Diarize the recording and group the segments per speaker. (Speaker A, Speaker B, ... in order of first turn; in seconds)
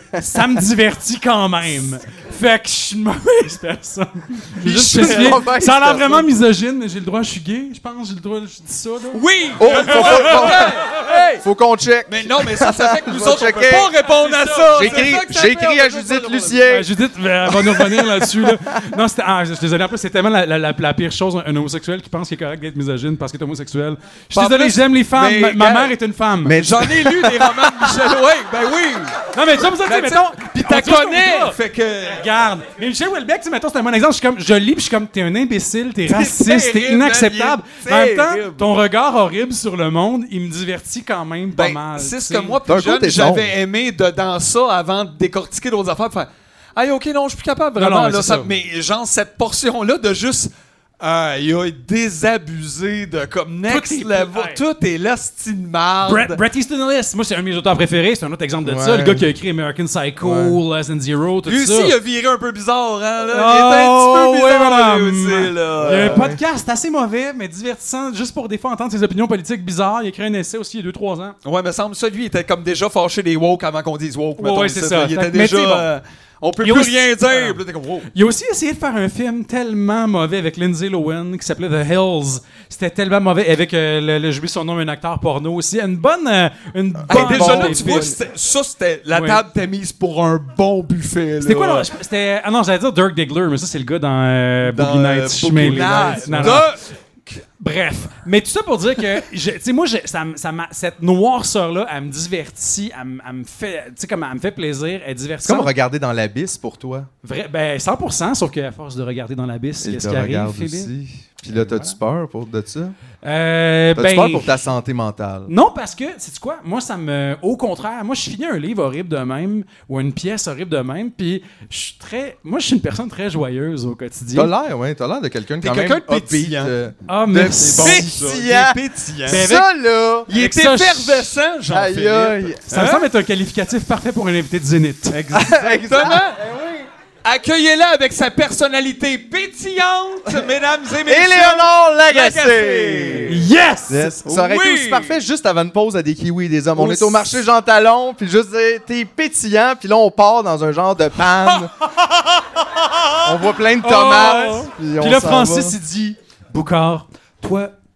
Speaker A: 0.1-10.9, 14.0-15.2, 16.6-26.6, 29.3-31.6, 32.1-42.6, 47.8-48.5, 53.7-54.6, 56.0-62.0, 63.2-71.3, 74.4-75.9, 76.6-77.6, 78.1-88.1, 89.1-89.4, 91.4-96.7, 97.6-105.7, 107.2-110.9, 111.5-111.9, 113.2-114.6, 115.5-124.5, 127.1-128.1, 129.3-129.7, 130.3-131.3, 132.7-135.3, 143.3-144.2, 153.8-157.7
Speaker B: 4.6-5.5, 9.1-11.4, 12.1-16.6, 24.3-26.0, 26.5-32.2, 36.1-38.7, 41.5-56.4, 61.5-66.3, 71.4-78.1, 87.1-91.9, 94.6-96.8, 125.6-126.7, 127.6-129.4, 130.3-133.1, 135.1-136.4, 137.2-143.4, 144.2-145.2, 146.8-147.3
Speaker C: 4.8-6.3, 9.6-13.9, 14.7-16.9, 26.4-27.6, 42.6-43.5, 58.6-59.2, 60.2-60.6, 65.8-66.4, 87.0-88.1, 95.8-96.6, 105.4-107.1, 109.8-113.0, 114.0-115.5, 124.3-130.3, 131.7-132.7, 135.3-136.9, 141.1-143.3, 143.9-151.7, 153.2-155.8